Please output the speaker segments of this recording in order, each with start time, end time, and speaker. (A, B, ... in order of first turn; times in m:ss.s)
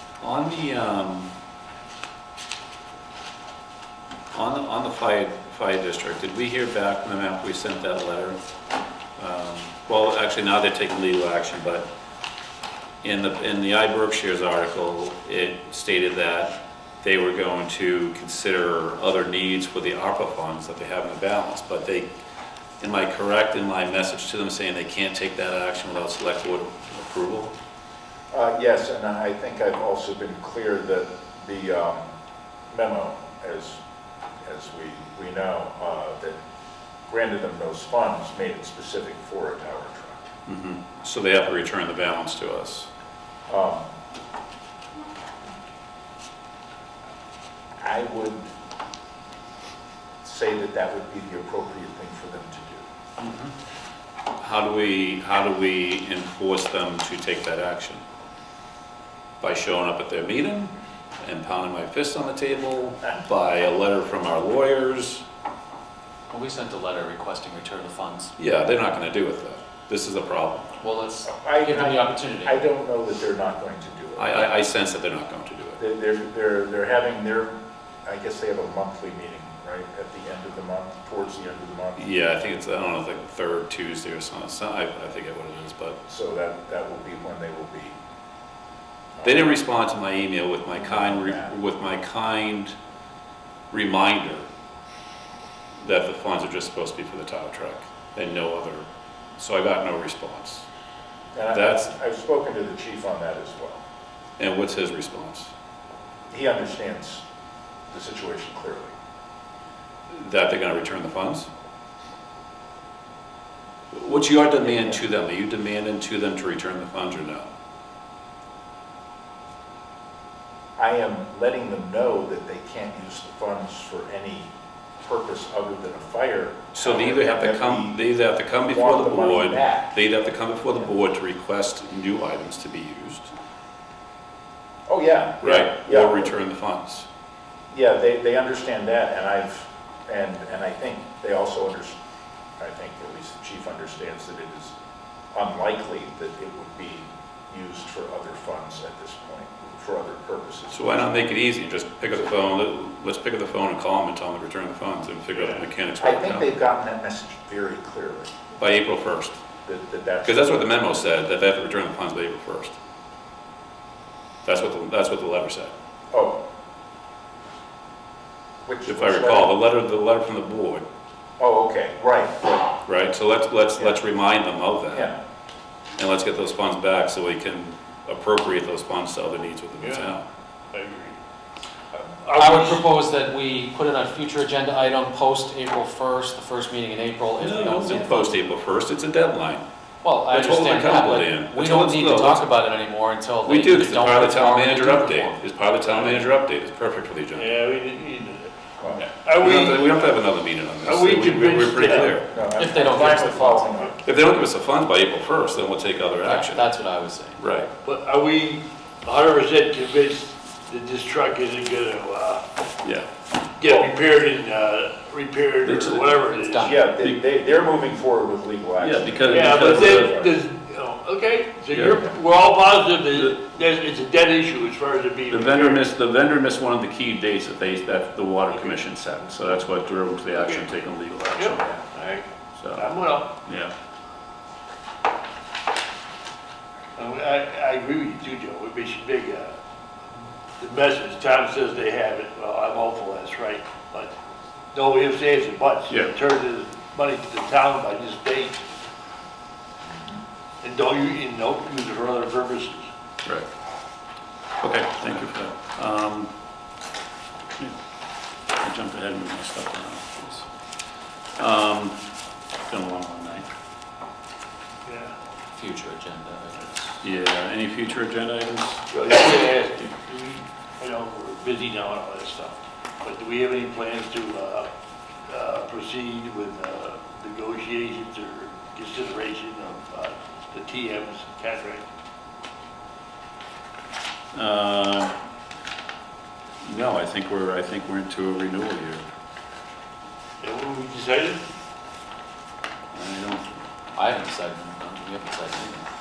0:00.2-0:01.3 A
0:04.3-0:08.4 A
0:09.2-0:11.9 A
0:13.0-0:22.1 A
0:22.8-0:27.5 A
0:28.3-0:32.1 B
0:32.7-0:33.8 B
0:34.4-0:36.4 B
0:37.1-0:40.2 B
0:40.5-0:42.9 A
0:43.5-0:43.9 B
0:47.8-0:48.5 B
0:50.2-0:52.9 B
0:54.4-0:58.0 A
0:59.4-1:05.2 A
1:06.3-1:08.3 C
1:08.4-1:10.7 A
1:10.8-1:12.6 C
1:11.2-1:14.5 B
1:14.2-1:15.8 A
1:15.8-1:17.5 B
1:18.0-1:22.1 B
1:22.0-1:26.0 A
1:26.1-1:28.0 B
1:29.2-1:29.5 B
1:29.2-1:32.7 A
1:30.8-1:31.6 B
1:33.7-1:34.5 A
1:35.8-1:38.9 A
1:39.4-1:40.7 A
1:41.4-1:43.8 B
1:41.5-1:41.9 A
1:44.4-1:45.5 A
1:46.3-1:47.2 B
1:47.9-1:48.9 B
1:50.1-1:51.5 A
1:53.9-1:57.5 A
1:54.6-1:55.0 B
2:00.8-2:04.5 B
2:05.0-2:08.0 B
2:06.7-2:13.3 A
2:08.7-2:10.0 B
2:14.9-2:16.4 B
2:15.4-2:17.1 A
2:17.7-2:22.0 B
2:22.6-2:24.8 B
2:25.3-2:31.3 B
2:30.7-2:36.5 A
2:35.3-2:35.6 D
2:36.0-2:38.4 B
2:38.6-2:39.4 A
2:39.6-2:40.7 B
2:40.2-2:42.8 A
2:44.4-2:45.7 A
2:46.1-2:46.4 B
2:48.6-2:49.5 B
2:48.9-2:50.8 A
2:51.4-2:52.8 B
2:52.8-2:55.1 A
2:54.9-2:55.2 B
2:56.0-3:00.2 A
2:59.8-3:00.2 D
3:00.7-3:01.2 D
3:02.0-3:02.8 D
3:02.3-3:08.4 C
3:07.4-3:09.6 A
3:10.0-3:15.5 C
3:10.3-3:12.5 A
3:13.4-3:17.5 A
3:17.3-3:18.5 D
3:18.8-3:19.1 B
3:19.1-3:20.1 D
3:19.3-3:22.2 A
3:20.8-3:22.2 D
3:21.9-3:24.0 B
3:22.5-3:23.8 C
3:24.0-3:26.7 A
3:26.2-3:27.4 C
3:27.4-3:27.7 A
3:27.8-3:32.4 D
3:32.8-3:33.1 A
3:33.6-3:36.8 D
3:33.6-3:33.9 B
3:35.6-3:36.2 A
3:36.3-3:36.8 C
3:36.6-3:40.4 B
3:37.0-3:37.3 A
3:38.8-3:40.2 A
3:39.3-3:45.8 D
3:41.7-3:42.0 A
3:45.3-3:51.7 A
3:51.4-3:53.3 D
3:52.6-3:52.9 A
3:53.4-3:53.7 A
3:57.0-3:59.6 D
4:00.6-4:04.1 D
4:04.7-4:08.6 D
4:05.9-4:06.1 A
4:09.8-4:10.2 B
4:10.6-4:12.9 D
4:14.6-4:16.3 A
4:18.6-4:20.5 A
4:21.4-4:22.0 A
4:22.7-4:23.5 A
4:24.9-4:25.2 D
4:25.5-4:27.0 C
4:27.0-4:29.4 A
4:28.9-4:34.7 D
4:35.3-4:41.9 D
4:44.3-4:45.2 A
4:46.6-4:49.0 A
4:50.4-4:51.4 D
4:52.9-4:53.7 A
4:54.0-4:55.9 C